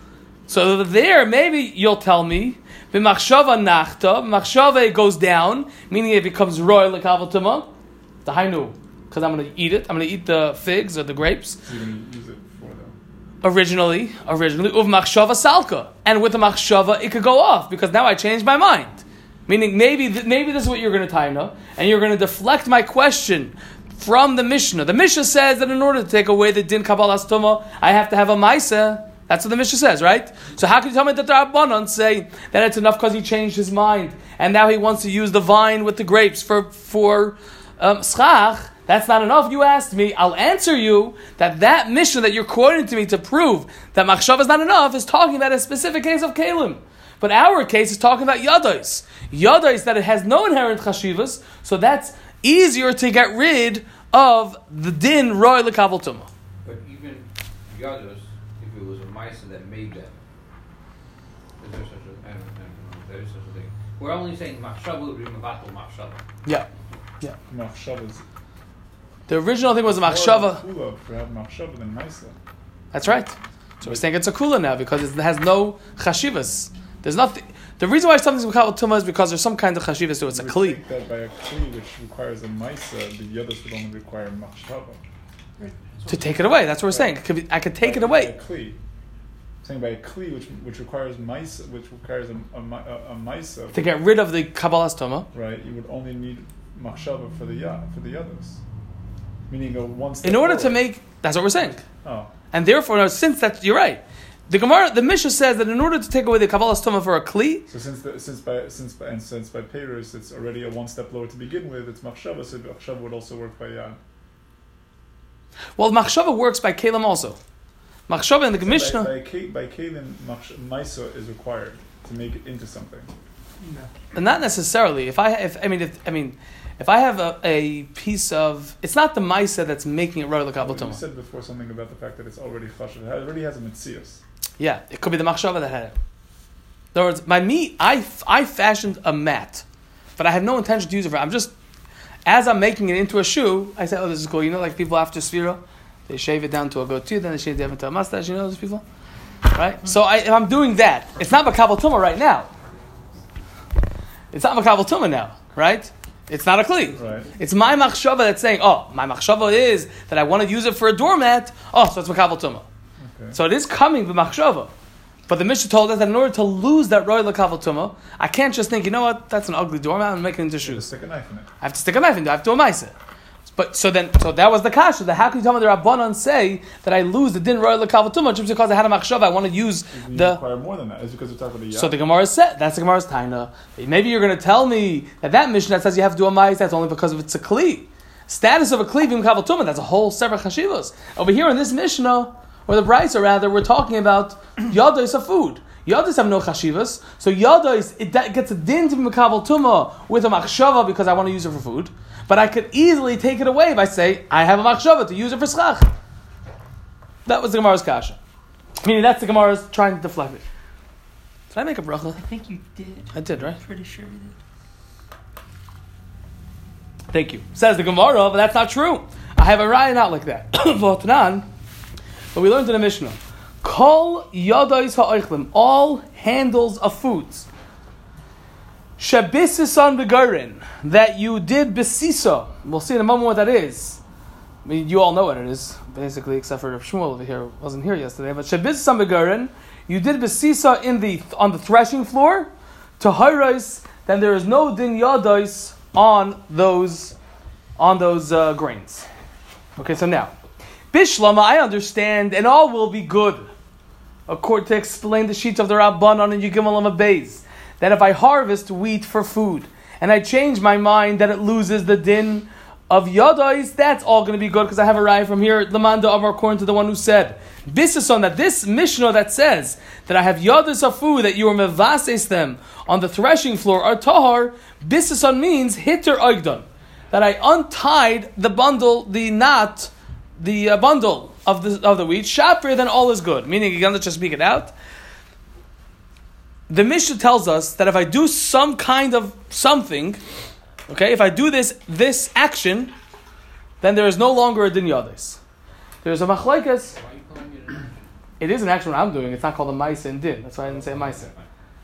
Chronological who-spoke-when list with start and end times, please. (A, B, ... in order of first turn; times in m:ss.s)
0:00.5-0:07.7 A
0:08.2-0:11.6 A
0:11.6-0:12.9 B
0:13.4-0:56.3 A
0:56.6-1:00.1 C
1:01.6-1:06.2 C
1:07.5-1:08.2 B
1:09.3-1:10.6 A
1:09.8-1:12.4 B
1:12.9-1:20.8 A
1:20.3-1:25.0 B
1:26.1-1:28.3 A
1:26.9-1:27.2 B
1:27.8-1:28.8 B
1:29.6-1:33.9 B
1:33.7-1:35.3 A
1:35.3-1:38.6 B
1:39.5-1:40.8 B
1:40.2-1:41.8 A
1:41.8-1:42.3 B
1:42.5-1:47.6 A
1:47.7-1:54.0 B
1:55.8-1:57.4 A
1:58.1-1:59.1 A
1:58.6-2:03.1 B
2:03.6-2:03.9 D
2:04.1-2:11.0 A
2:10.6-2:14.2 B
2:14.6-2:16.0 A
2:16.9-2:19.6 A
2:20.2-2:21.5 A
2:22.2-2:28.8 A
2:29.5-2:32.5 A
2:34.3-2:42.6 A
2:36.9-2:37.3 B
2:43.0-2:43.4 B
2:43.3-2:44.7 A
2:45.3-2:50.9 A
2:50.6-2:51.5 B
2:51.6-2:52.9 A
2:53.5-3:00.4 A
2:59.9-3:02.0 B
3:01.8-3:25.9 A
3:27.2-3:28.2 A
3:28.8-3:30.4 A
3:31.5-3:32.2 A
3:32.2-3:34.4 D
3:33.1-3:33.6 A
3:37.1-3:41.4 A
3:42.3-3:47.4 A
3:49.0-3:54.0 A
3:54.6-4:07.1 A
4:07.8-4:09.1 A
4:09.8-4:10.3 A
4:10.9-4:13.5 A
4:14.3-4:44.7 A
4:46.7-4:50.2 A
4:50.9-4:52.9 A
4:53.8-4:55.4 A
4:56.0-4:57.0 A
4:56.5-4:58.0 C
4:58.4-5:01.3 A
5:00.6-5:01.5 C